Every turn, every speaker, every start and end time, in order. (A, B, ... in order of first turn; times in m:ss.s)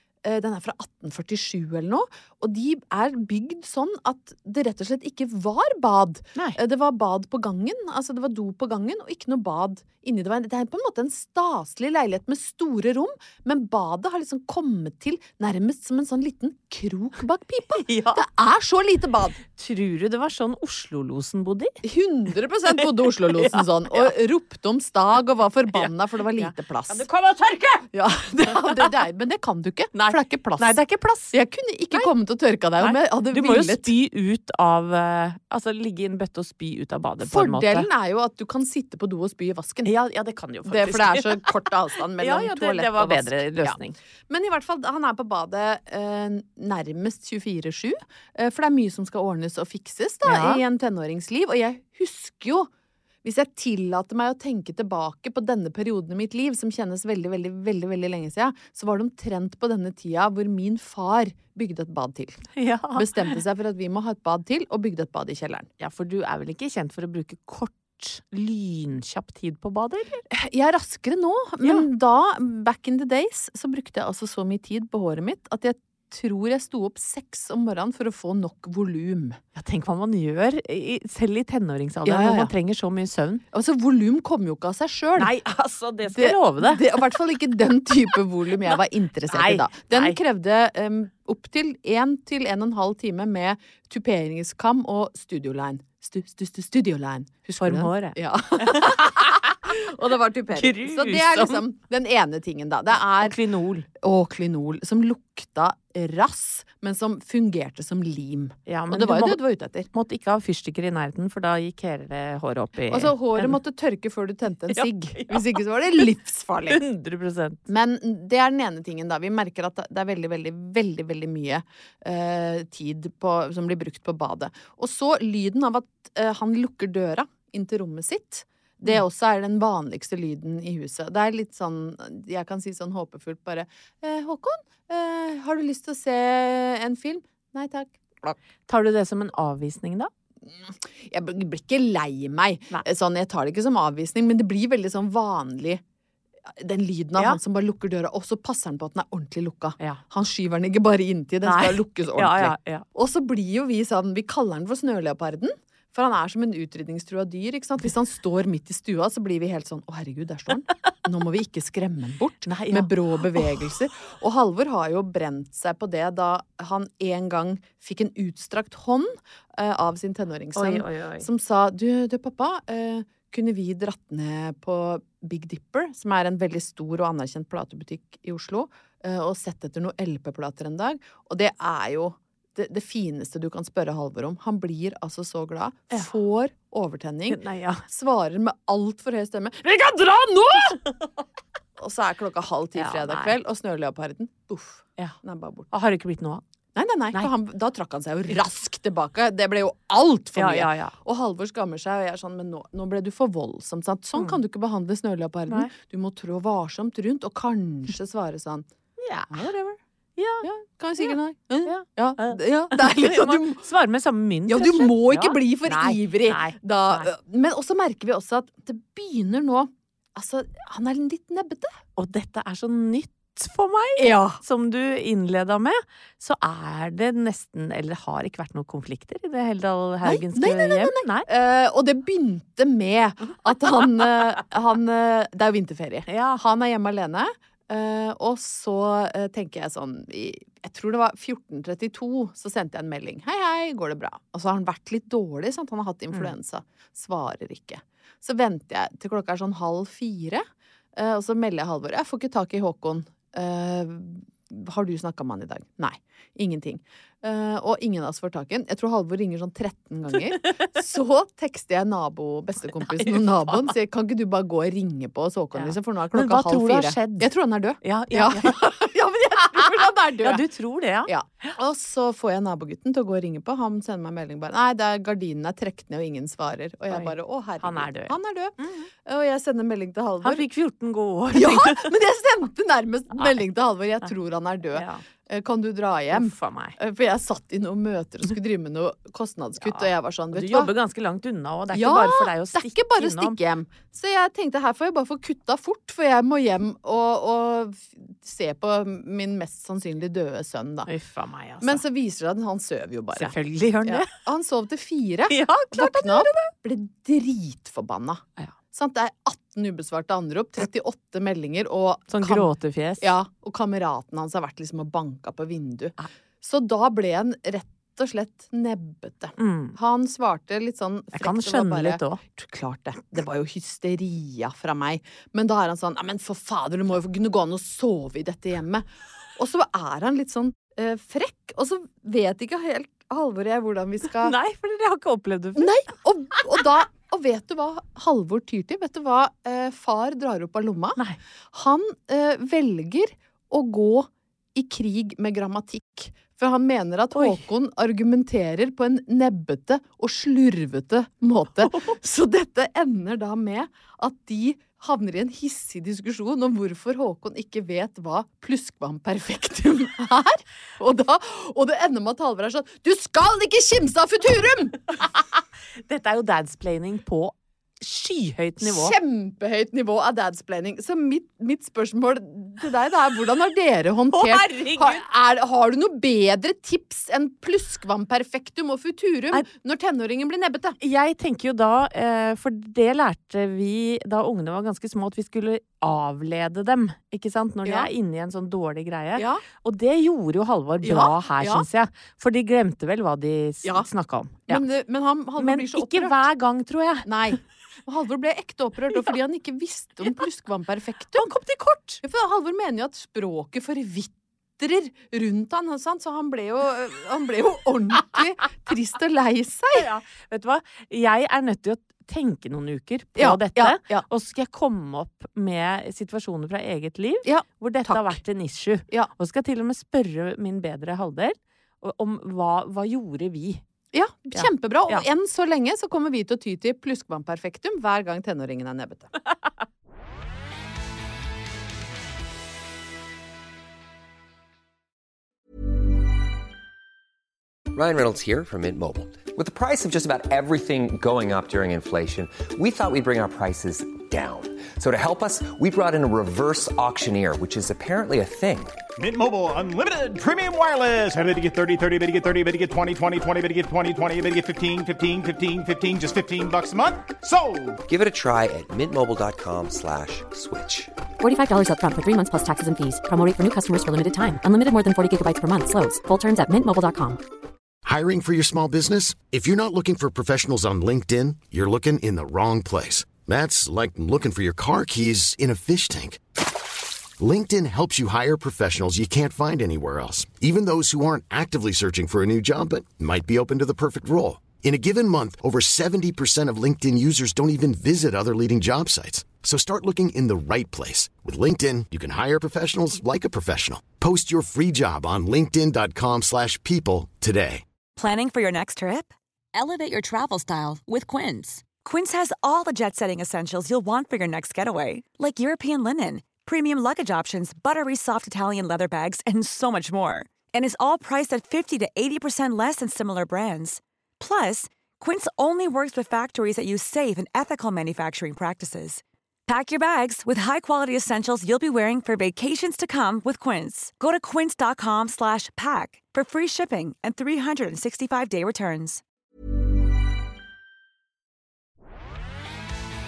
0:00.2-0:19.4 A
0:17.8-0:18.3 B
0:19.5-0:21.8 B
0:21.8-0:27.1 A
0:22.7-0:24.1 B
0:25.7-0:27.9 B
0:27.9-0:30.8 A
0:28.5-0:28.9 B
0:29.9-0:31.4 B
0:31.3-0:33.9 A
0:32.8-0:37.9 B
0:37.2-0:39.9 A
0:39.8-0:41.6 B
0:40.6-0:43.8 A
0:42.2-0:44.0 B
0:44.3-0:52.7 A
0:50.2-0:50.6 B
0:53.2-1:02.4 A
1:02.6-1:03.4 B
1:03.0-1:05.7 A
1:05.8-1:10.2 B
1:10.3-1:19.4 A
1:11.6-1:11.9 B
1:19.6-1:23.4 B
1:22.1-1:22.5 A
1:23.5-1:25.3 A
1:25.2-1:27.1 B
1:26.1-1:43.4 A
1:29.3-1:30.2 B
1:37.6-1:39.5 B
1:40.5-1:41.6 B
1:42.9-1:43.9 B
1:44.0-1:49.9 A
1:48.7-1:49.4 B
1:49.9-1:53.6 B
1:52.9-1:56.8 A
1:54.7-1:56.0 B
1:56.7-1:57.6 B
1:57.7-2:18.4 A
2:18.7-2:20.1 B
2:20.5-2:25.8 A
2:26.6-3:10.8 A
2:31.4-2:32.9 B
2:42.4-2:43.6 B
2:50.6-2:51.3 B
3:07.3-3:07.8 B
3:11.8-3:15.7 A
3:12.8-3:13.4 B
3:15.7-3:16.4 B
3:16.8-3:28.7 A
3:20.4-3:21.0 B
3:24.2-3:24.4 B
3:25.5-3:25.7 B
3:29.0-3:29.5 B
3:29.3-3:29.8 A
3:30.2-3:37.1 B
3:30.4-3:33.6 A
3:34.5-3:41.8 A
3:42.0-3:51.3 B
3:44.0-3:44.4 A
3:50.0-4:10.4 A
3:56.1-3:56.4 B
4:11.0-4:30.4 A
4:20.1-4:20.6 B
4:22.8-4:23.7 B
4:25.5-4:28.8 B
4:29.5-4:31.6 B
4:31.1-4:38.6 A
4:36.9-4:38.9 B
4:39.1-4:40.4 A
4:40.2-4:41.9 B
4:41.3-4:50.7 A
4:44.7-4:45.0 B
4:46.1-4:46.8 B
4:49.6-4:53.4 B
4:51.7-5:00.9 A
5:00.9-5:01.8 B
5:01.6-5:12.5 A
5:03.2-5:04.1 B
5:05.3-5:06.5 B
5:12.1-5:13.1 B
5:13.0-5:34.4 A
5:19.4-5:19.8 B
5:21.1-5:22.2 B
5:34.0-5:35.7 B
5:35.6-5:41.0 A
5:41.5-6:05.0 A
5:47.1-5:47.4 B
5:51.6-5:52.0 B
6:05.0-6:05.2 B
6:05.8-6:09.0 B
6:08.6-6:20.8 A
6:14.1-6:15.0 B
6:20.8-6:34.6 B
6:29.2-6:29.4 A
6:30.8-6:31.6 A
6:34.5-6:36.2 A
6:35.4-6:37.4 B
6:37.1-6:41.3 A
6:41.1-6:42.0 B
6:42.0-6:49.9 A
6:49.7-7:03.6 B
6:53.2-6:54.0 A
6:57.2-6:58.2 A
7:03.9-7:09.1 A
7:04.3-7:05.1 B
7:17.7-7:28.8 C
7:29.0-7:37.8 D
7:37.9-7:40.9 C
7:41.2-7:47.2 E
7:47.8-7:56.2 F
7:57.2-8:17.6 F
8:18.0-8:49.0 G